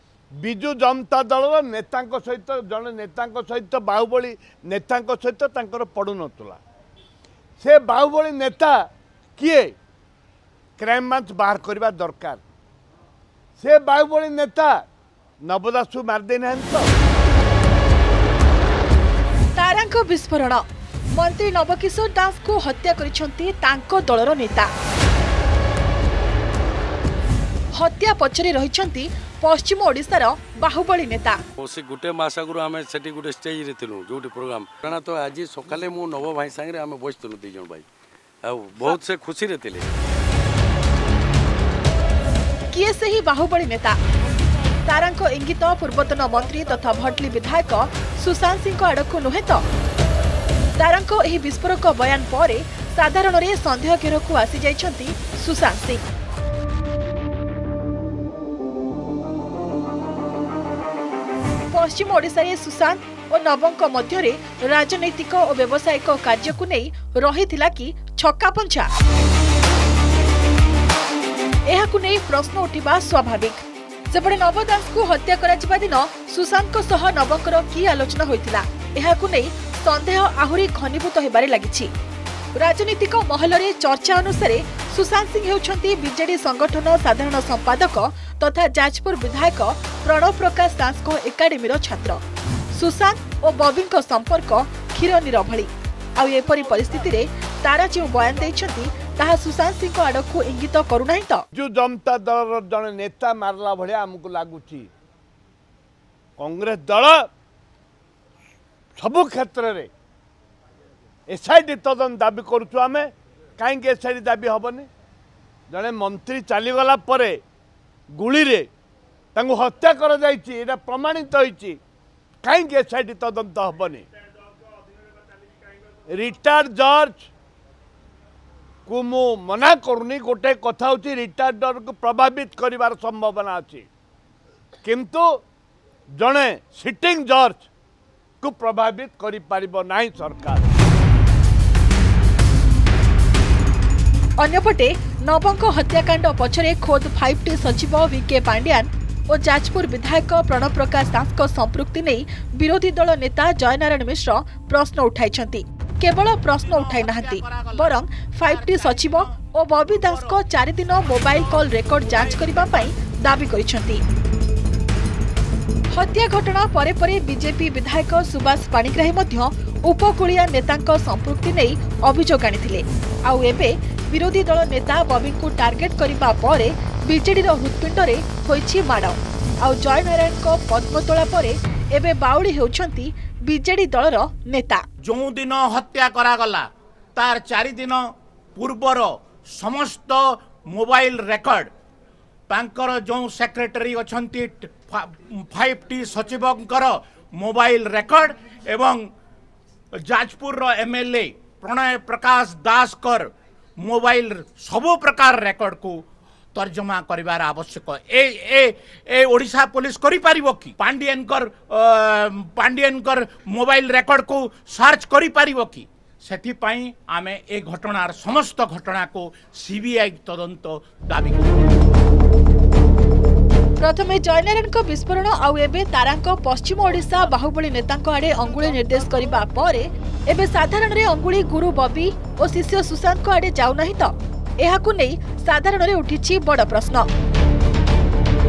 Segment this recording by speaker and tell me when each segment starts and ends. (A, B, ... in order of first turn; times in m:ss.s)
0:00.4-0:06.6 A
0:07.6-0:09.7 A
0:10.8-0:12.4 A
0:13.6-0:14.8 A
0:15.4-0:16.9 A
0:19.6-0:20.6 B
0:21.2-0:24.7 B
0:27.7-0:31.4 B
0:31.6-0:37.8 C
0:38.4-0:39.9 C
0:42.7-0:44.0 B
0:44.8-0:49.6 B
0:50.8-0:56.0 B
1:01.7-1:08.9 B
1:11.7-1:21.9 B
1:22.6-1:32.2 B
1:32.7-1:41.4 B
1:41.5-1:44.9 A
1:46.4-1:47.3 A
1:48.9-1:49.9 A
1:51.3-1:54.9 A
1:55.7-1:57.4 A
1:58.1-1:58.7 A
1:59.3-2:01.8 A
2:02.4-2:04.0 A
2:06.1-2:07.3 A
2:08.8-2:13.9 A
2:14.8-2:15.4 A
2:16.2-2:17.7 A
2:18.4-2:20.7 A
2:24.4-2:44.0 B
2:36.6-2:42.9 D
2:45.9-3:04.8 B
3:05.0-3:11.7 D
3:12.5-3:19.1 D
3:20.0-3:26.0 D
3:26.5-3:41.6 D
3:43.8-3:57.1 B